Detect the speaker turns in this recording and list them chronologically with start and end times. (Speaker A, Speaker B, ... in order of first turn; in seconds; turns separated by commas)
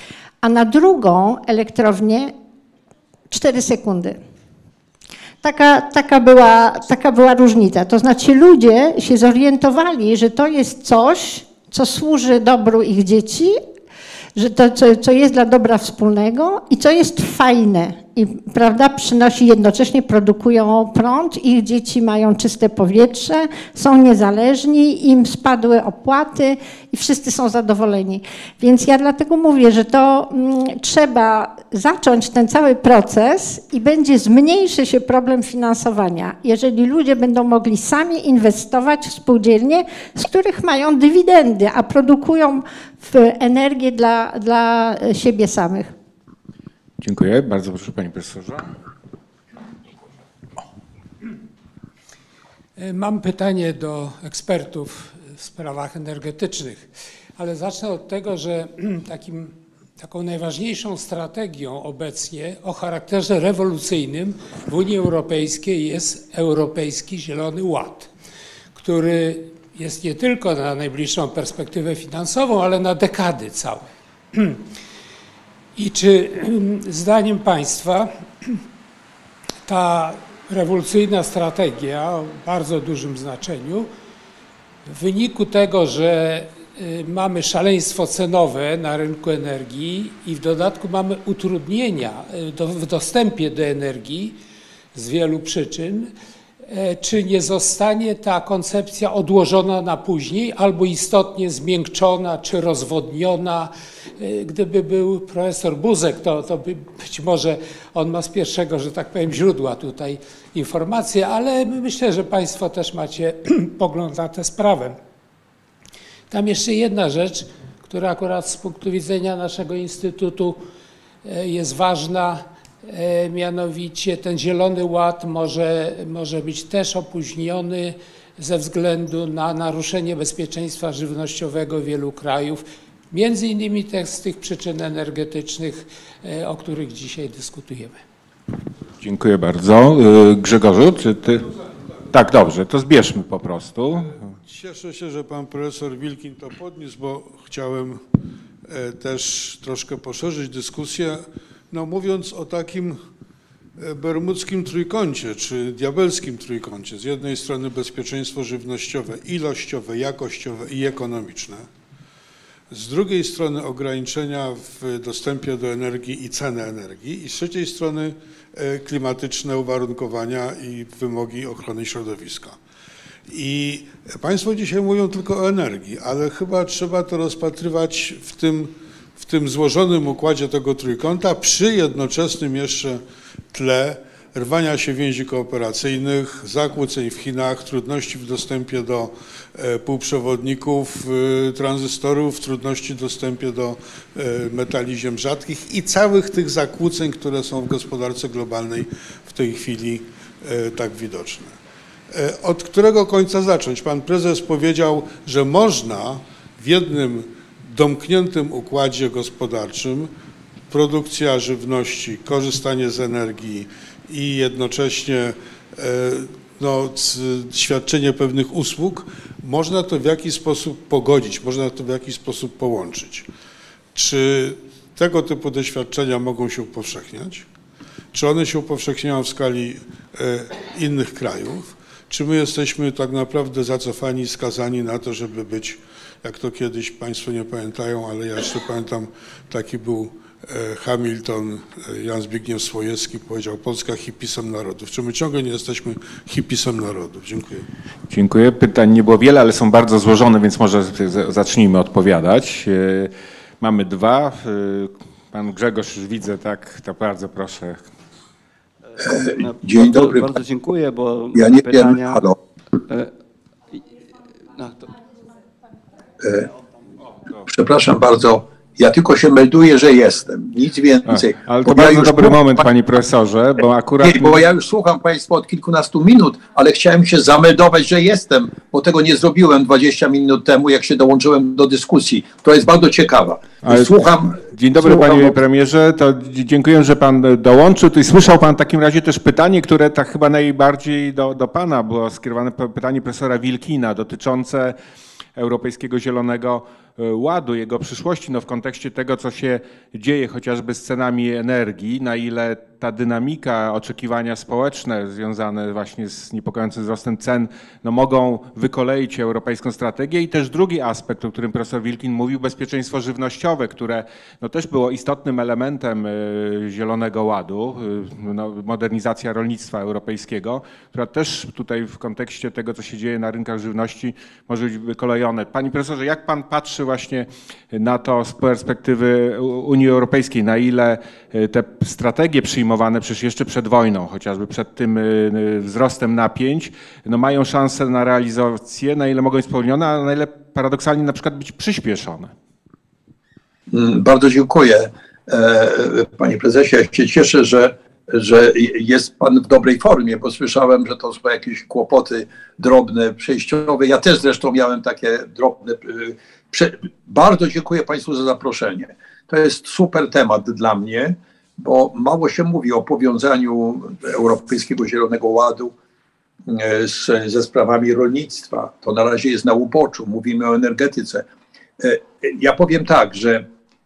Speaker A: 0.4-2.3, Speaker A: 3.3-4.2, Speaker A: 5.4-13.6, Speaker A: 14.3-45.9, Speaker B: 47.0-48.7, Speaker C: 52.8-68.1, Speaker C: 68.8-74.6, Speaker C: 75.8-78.6, Speaker C: 79.7-83.9, Speaker C: 84.9-94.4, Speaker C: 94.9-96.1, Speaker C: 96.7-115.0, Speaker C: 116.3-120.6, Speaker C: 121.2-138.0, Speaker B: 139.0-141.5, Speaker B: 142.1-144.2, Speaker D: 144.4-148.0, Speaker D: 148.7-153.0, Speaker D: 153.8-161.7, Speaker D: 162.7-172.6, Speaker D: 173.3-201.6, Speaker D: 202.1-210.1, Speaker D: 210.7-223.3, Speaker D: 223.9-227.5, Speaker D: 228.1-247.7, Speaker B: 248.1-257.9, Speaker E: 258.9-262.3, Speaker F: 259.1-260.3, Speaker F: 261.4-262.4, Speaker E: 264.5-265.2, Speaker F: 266.2-266.5, Speaker F: 267.5-272.6, Speaker B: 271.1-274.4, Speaker F: 274.0-285.4, Speaker B: 283.6-294.8, Speaker B: 295.4-342.3, Speaker F: 343.7-365.7, Speaker F: 366.5-371.2, Speaker F: 371.8-373.5